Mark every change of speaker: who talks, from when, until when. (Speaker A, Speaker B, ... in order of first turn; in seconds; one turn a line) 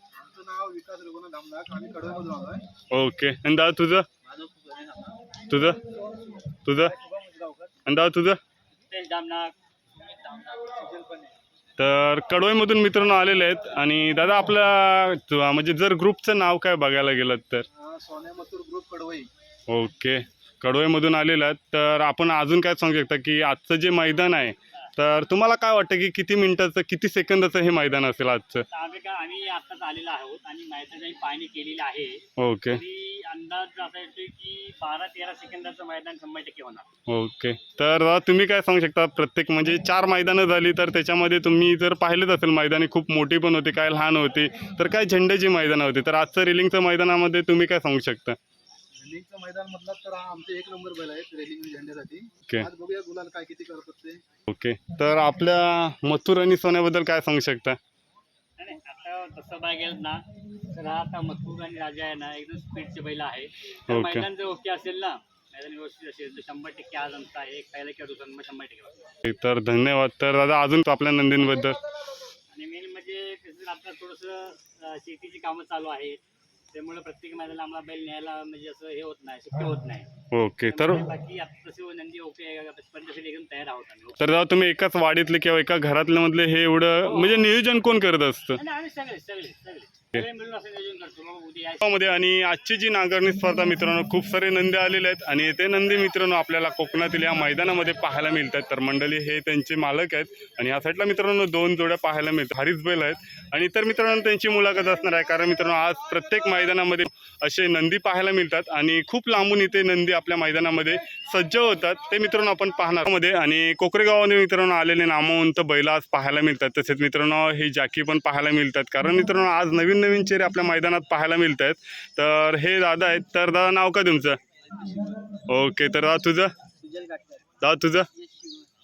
Speaker A: 0.2-2.6
Speaker B: 2.9-4.0
Speaker B: 5.5-5.8
Speaker B: 6.6-7.0
Speaker B: 7.8-8.4
Speaker C: 8.9-11.2
Speaker B: 11.8-17.7
Speaker A: 17.8-19.3
Speaker B: 19.7-28.6
Speaker C: 28.7-36.9
Speaker B: 32.4-32.8
Speaker B: 37.1-48.4
Speaker A: 49.0-54.2
Speaker B: 54.5-57.8
Speaker C: 58.6-69.1
Speaker B: 63.9-64.3
Speaker B: 69.2-71.8
Speaker C: 72.5-76.2
Speaker C: 76.7-80.1
Speaker B: 80.3-81.0
Speaker C: 80.7-84.2
Speaker B: 84.2-88.6
Speaker C: 87.1-87.5
Speaker C: 88.5-91.8
Speaker B: 91.8-124.4
Speaker B: 125.5-126.5
Speaker C: 126.8-127.3
Speaker B: 127.6-128.1